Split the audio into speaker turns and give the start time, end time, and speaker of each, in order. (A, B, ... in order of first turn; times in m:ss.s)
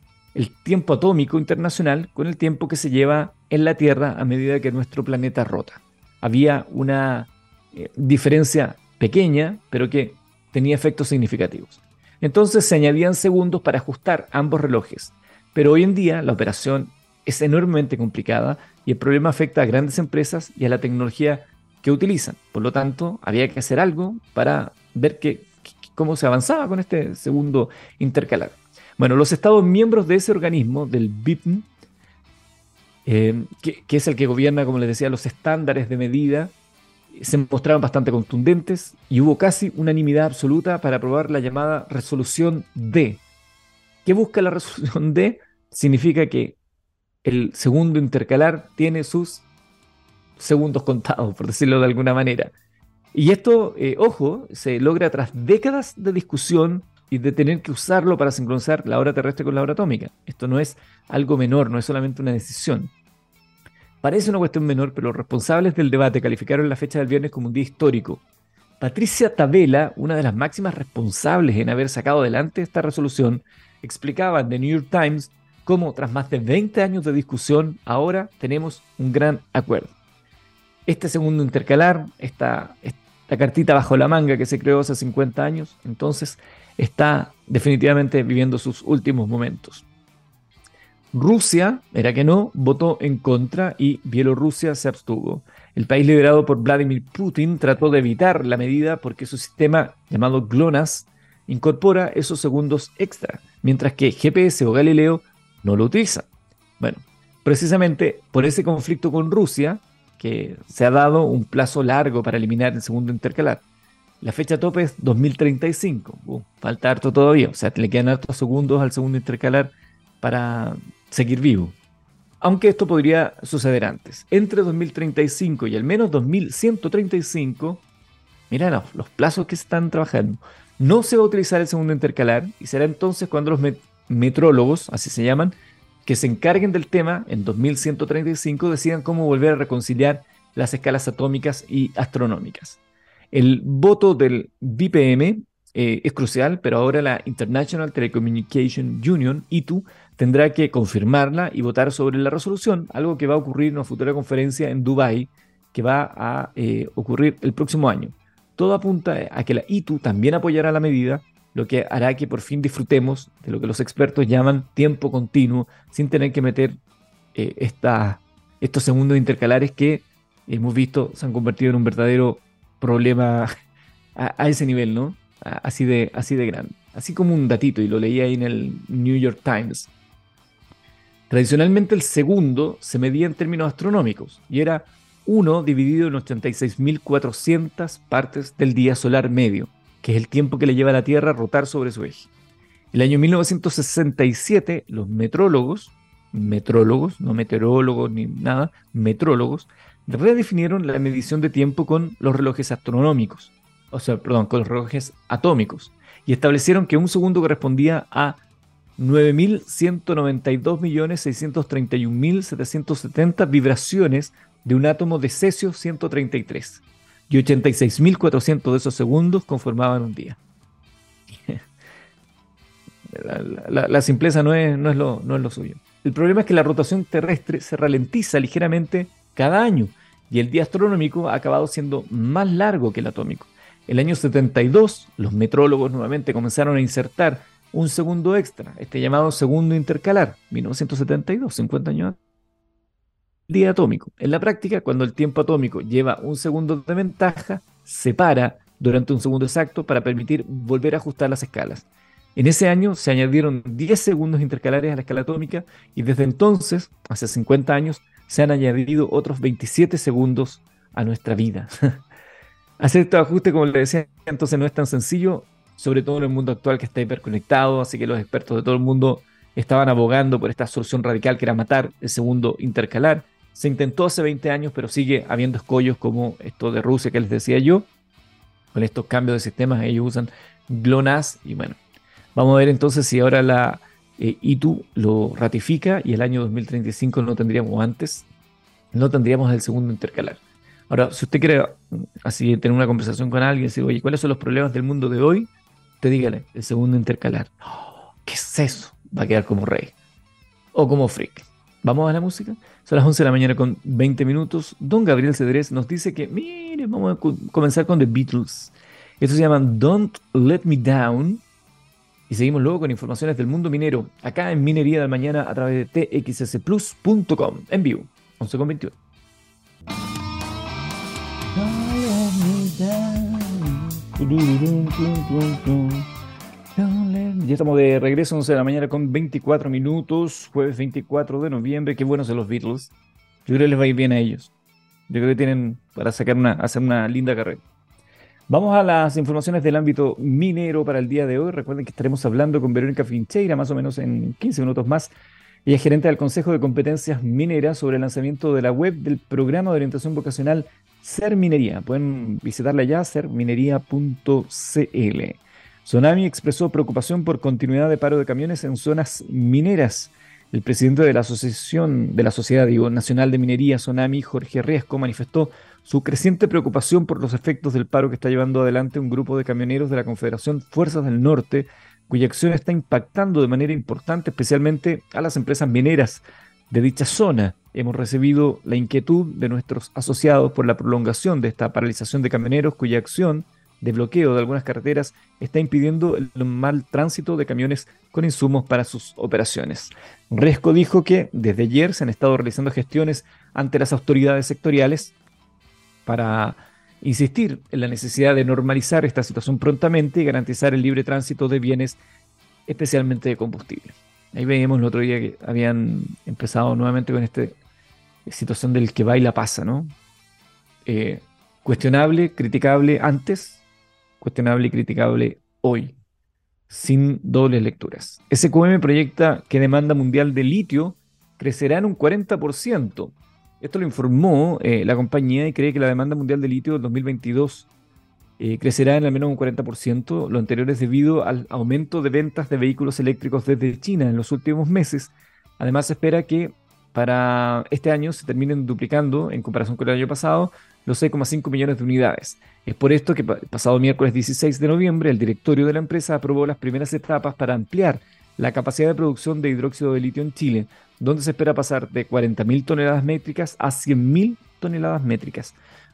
0:00.3-0:31.7 A
0:33.0-0:36.5 A
0:37.1-0:43.2 A
0:44.0-0:46.6 A
0:47.2-0:49.5 A
0:50.4-0:52.5 A
0:53.1-1:02.9 A
1:04.0-1:08.2 A
1:08.8-1:19.9 A
1:20.9-1:29.8 A
1:31.1-1:46.3 A
1:46.8-1:53.6 A
1:54.2-2:01.8 A
2:02.4-2:07.8 A
2:08.5-2:15.6 A
2:16.1-2:22.8 A
2:23.3-2:46.8 A
2:47.4-2:53.5 A
2:54.2-2:59.9 A
3:01.3-3:12.3 A
3:12.9-3:28.4 A
3:29.0-3:40.4 A
3:43.1-4:02.2 A
4:03.5-4:22.0 A
4:22.8-4:37.9 A
4:38.7-4:41.8 A
4:42.4-4:48.3 A
4:48.9-4:55.5 A
4:56.0-4:59.9 A
5:00.7-5:11.4 A
5:12.3-5:19.0 A
5:21.6-5:26.1 A
5:26.8-5:32.9 A
5:33.5-5:34.5 A
5:35.1-5:37.6 A
5:38.5-5:45.1 A
5:45.7-6:35.2 A
6:36.1-6:42.0 A
6:42.7-6:47.6 A
6:48.3-6:49.9 A
6:50.8-6:53.6 A
6:54.2-6:56.0 A
6:56.7-7:07.7 A
7:08.4-7:35.6 A